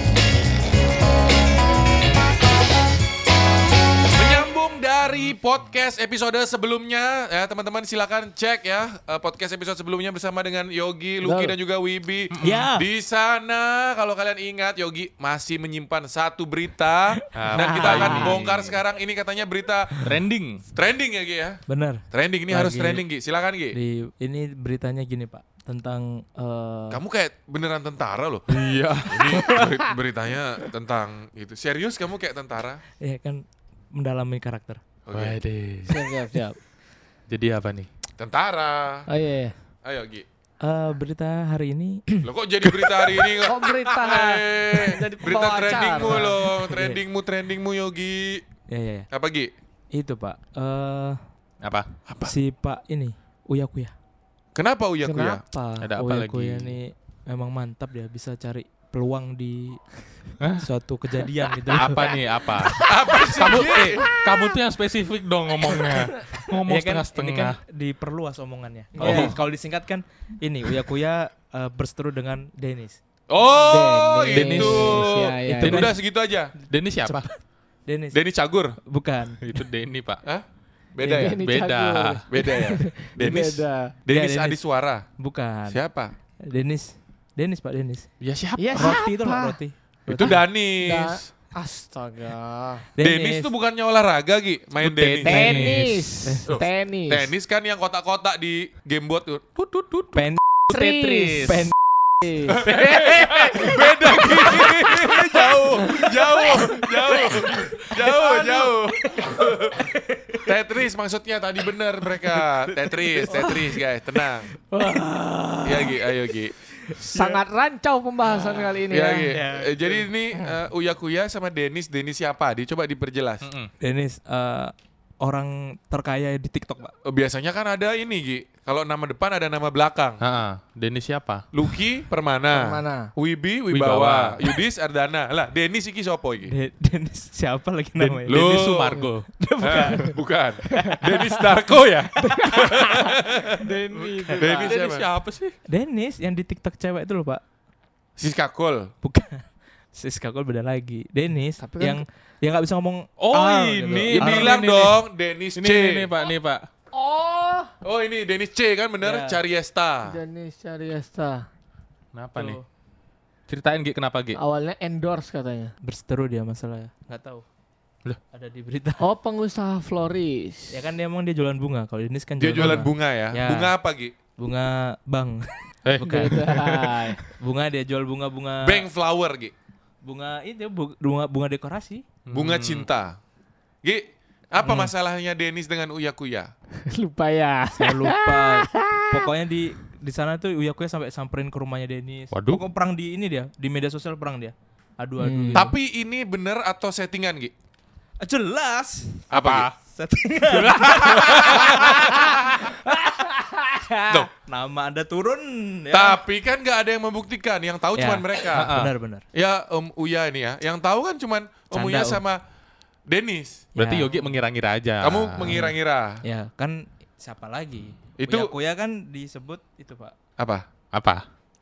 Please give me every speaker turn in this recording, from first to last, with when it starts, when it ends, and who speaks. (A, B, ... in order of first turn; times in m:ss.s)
0:04.1-0:20.1 A
0:11.2-0:11.5 B
0:12.3-0:12.7 C
0:12.4-0:12.8 D
0:17.3-0:18.8 C
0:17.6-0:18.4 B
0:20.0-0:20.6 C
0:20.7-0:23.8 A
0:21.7-0:23.0 D
0:23.7-0:27.0 D
0:26.9-0:28.5 A
0:28.5-0:29.6 C
0:29.0-0:32.8 A
0:33.0-0:34.8 D
0:35.0-0:35.4 A
0:35.1-0:36.2 C
0:35.9-0:36.6 B
0:37.3-0:37.9 C
0:38.2-0:39.1 A
0:39.1-0:39.5 B
0:39.8-0:40.2 A
0:40.6-0:42.9 D
0:42.2-0:48.4 A
0:43.4-0:46.4 B
0:46.0-0:47.0 D
0:48.7-0:49.1 D
0:49.1-0:49.5 A
0:49.9-0:51.2 D
0:51.6-0:51.9 C
0:52.0-0:52.3 A
0:52.2-0:53.9 D
0:54.5-0:55.4 A
0:55.0-0:55.9 B
0:55.8-0:56.8 C
0:56.0-0:59.8 D
1:00.4-1:00.6 C
1:00.6-1:02.1 D
1:01.7-1:02.8 C
1:02.0-1:04.6 B
1:02.8-1:04.0 A
1:03.3-1:07.6 C
1:05.6-1:06.3 B
1:06.5-1:13.0 D
1:09.0-1:09.4 B
1:09.0-1:09.4 C
1:13.3-1:16.5 A
1:13.5-1:15.9 B
1:14.3-1:15.9 C
1:14.4-1:14.8 D
1:15.4-1:15.9 D
1:16.7-1:17.2 C
1:17.0-1:18.2 D
1:18.1-1:18.8 A
1:18.8-1:19.6 D
1:19.4-1:20.2 C
1:20.2-1:21.4 A
1:21.0-1:23.9 B
1:21.1-1:22.2 C
1:22.3-1:25.0 A
1:24.1-1:24.6 D
1:25.2-1:25.8 D
1:25.7-1:26.1 A
1:26.4-1:28.1 D
1:28.2-1:29.0 C
1:28.6-1:29.6 B
1:28.7-1:30.3 D
1:30.1-1:31.3 A
1:30.1-1:32.9 B
1:33.0-1:33.5 D
1:33.0-1:35.8 A
1:34.8-1:36.2 C
1:35.2-1:37.3 B
1:36.2-1:36.6 D
1:36.5-1:39.7 A
1:39.7-1:40.2 C
1:40.1-1:41.7 D
1:40.7-1:42.8 B
1:40.7-1:41.6 C
1:42.5-1:54.5 A
1:42.7-1:43.6 C
1:42.7-1:45.0 D
1:44.5-1:44.9 C
1:45.6-1:48.6 D
1:48.2-1:48.7 B
1:49.1-1:50.5 D
1:52.1-1:53.8 D
1:53.3-1:53.6 B
1:54.7-1:56.0 B
1:55.6-1:56.5 A
1:56.9-1:57.4 D
1:56.9-1:59.4 B
1:58.3-1:58.6 D
1:58.9-2:03.5 A
1:59.2-2:00.0 D
2:03.4-2:03.7 C
2:03.8-2:06.9 D
2:07.0-2:10.2 A
2:10.2-2:11.5 C
2:11.5-2:16.5 A
2:12.5-2:13.1 B
2:13.7-2:14.4 C
2:16.5-2:18.7 D
2:18.0-2:19.3 C
2:18.3-2:19.0 A
2:19.3-2:20.2 D
2:19.6-2:23.7 A
2:20.8-2:21.4 D
2:22.2-2:23.2 D
2:22.2-2:24.8 B
2:24.3-2:25.1 A
2:24.4-2:25.6 C
2:25.7-2:27.4 D
2:28.2-2:28.9 A
2:29.0-2:34.6 D
2:31.6-2:32.0 B
2:33.2-2:35.0 C
2:34.1-2:36.1 A
2:35.5-2:36.6 C
2:36.9-2:37.7 B
2:37.8-2:40.2 A
2:39.0-2:39.4 D
2:40.0-2:41.4 B
2:42.1-2:42.6 C
2:42.3-2:42.6 D
2:43.5-2:44.4 C
2:44.4-2:45.7 B
2:45.8-2:47.4 D
2:48.3-2:49.0 D
2:49.0-2:50.8 B
2:50.7-2:53.7 D
2:52.4-2:54.1 A
2:54.4-2:56.6 D
2:55.8-2:57.1 C
2:56.1-2:57.2 B
2:57.2-2:58.8 D
2:58.6-2:59.5 A
3:00.0-3:02.0 D
3:02.3-3:02.8 C
3:02.3-3:03.2 A
3:03.8-3:06.5 A
3:04.6-3:04.9 D
3:06.8-3:09.3 B
3:07.8-3:15.7 D
3:12.3-3:12.6 C
3:15.2-3:15.7 B
3:15.5-3:17.5 A
3:18.2-3:19.3 D
3:19.3-3:19.7 A
3:19.3-3:19.7 C
3:19.8-3:23.2 D
3:20.4-3:22.7 A
3:21.7-3:24.2 B
3:24.4-3:26.2 D
3:25.9-3:28.7 A
3:27.9-3:29.2 D
3:28.5-3:28.9 C
3:29.3-3:32.4 A
3:31.7-3:32.2 D
3:33.1-3:33.6 A
3:33.7-3:34.3 D
3:33.8-3:35.6 C
3:35.0-3:36.2 A
3:35.4-3:40.1 D
3:38.2-3:38.5 A
3:40.4-3:40.7 A
3:40.9-3:41.2 C